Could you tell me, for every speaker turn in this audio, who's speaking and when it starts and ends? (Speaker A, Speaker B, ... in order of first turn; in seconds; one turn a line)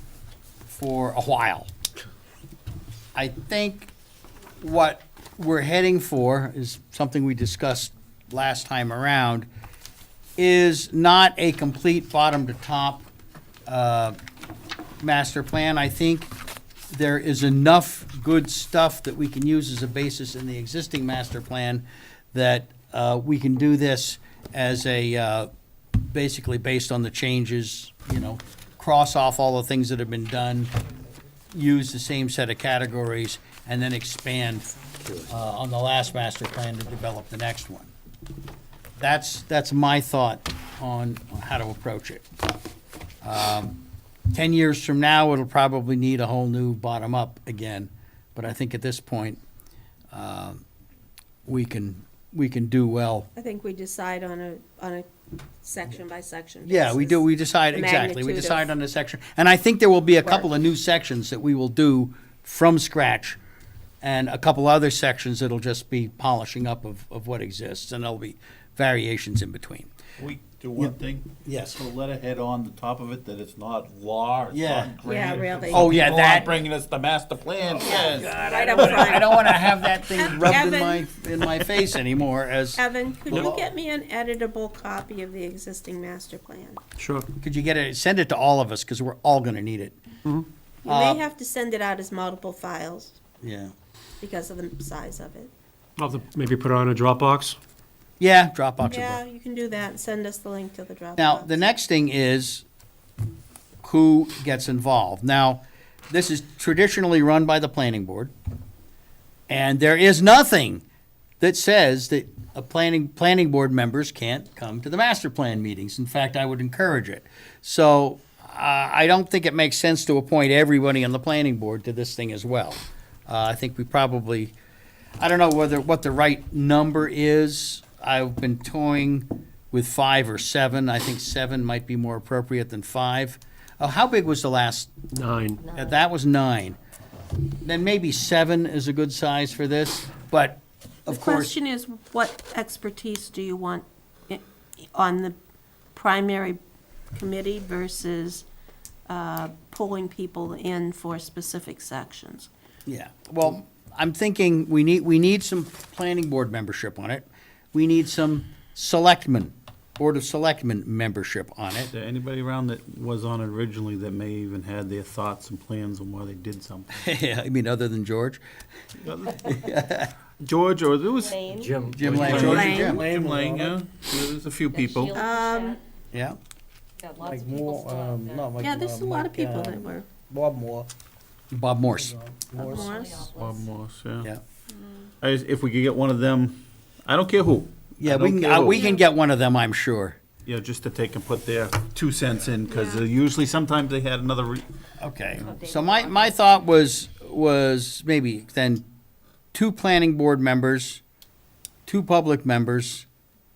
Speaker A: 0.6-1.7
Speaker A: 3.1-3.9
Speaker A: 4.6-9.5
Speaker A: 10.4-13.0
Speaker A: 13.7-14.2
Speaker A: 15.0-16.3
Speaker A: 16.9-30.7
Speaker A: 31.5-37.9
Speaker A: 39.0-42.2
Speaker A: 43.2-49.4
Speaker A: 50.1-50.6
Speaker A: 51.5-53.3
Speaker B: 53.4-55.1
Speaker B: 55.6-58.7
Speaker A: 56.6-63.4
Speaker A: 64.0-69.9
Speaker C: 70.2-79.0
Speaker A: 71.4-71.8
Speaker A: 74.5-75.0
Speaker B: 75.0-75.9
Speaker A: 75.7-76.5
Speaker B: 77.8-81.0
Speaker A: 77.9-83.6
Speaker B: 82.8-86.8
Speaker D: 87.0-87.3
Speaker A: 87.4-90.0
Speaker B: 90.8-93.2
Speaker A: 90.9-91.2
Speaker A: 93.4-93.7
Speaker B: 94.2-95.5
Speaker D: 96.0-97.6
Speaker A: 98.2-99.2
Speaker B: 98.9-101.6
Speaker A: 101.2-102.7
Speaker A: 103.8-108.3
Speaker A: 109.5-110.8
Speaker A: 111.4-124.5
Speaker A: 125.2-134.9
Speaker D: 135.1-135.6
Speaker A: 135.7-136.8
Speaker A: 137.6-141.5
Speaker B: 141.1-145.3
Speaker B: 145.9-146.6
Speaker B: 147.1-148.4
Speaker B: 149.1-152.5
Speaker A: 152.8-161.9
Speaker C: 161.9-167.0
Speaker A: 167.0-168.4
Speaker C: 169.0-169.7
Speaker A: 169.4-170.1
Speaker C: 170.4-175.2
Speaker E: 171.2-171.9
Speaker F: 171.6-173.8
Speaker A: 171.9-173.0
Speaker B: 172.2-172.9
Speaker E: 174.7-175.8
Speaker B: 175.1-175.8
Speaker A: 176.1-176.4
Speaker E: 177.0-178.5
Speaker F: 177.2-180.9
Speaker B: 178.6-180.1
Speaker A: 181.5-182.2
Speaker F: 181.9-182.9
Speaker B: 182.6-183.3
Speaker E: 182.6-183.6
Speaker C: 183.2-184.3
Speaker B: 184.7-185.1
Speaker C: 185.2-188.9
Speaker A: 188.0-190.2
Speaker C: 190.4-194.6
Speaker B: 192.7-193.0
Speaker A: 195.0-198.8
Speaker E: 195.4-196.5
Speaker A: 199.5-201.0
Speaker A: 201.8-203.1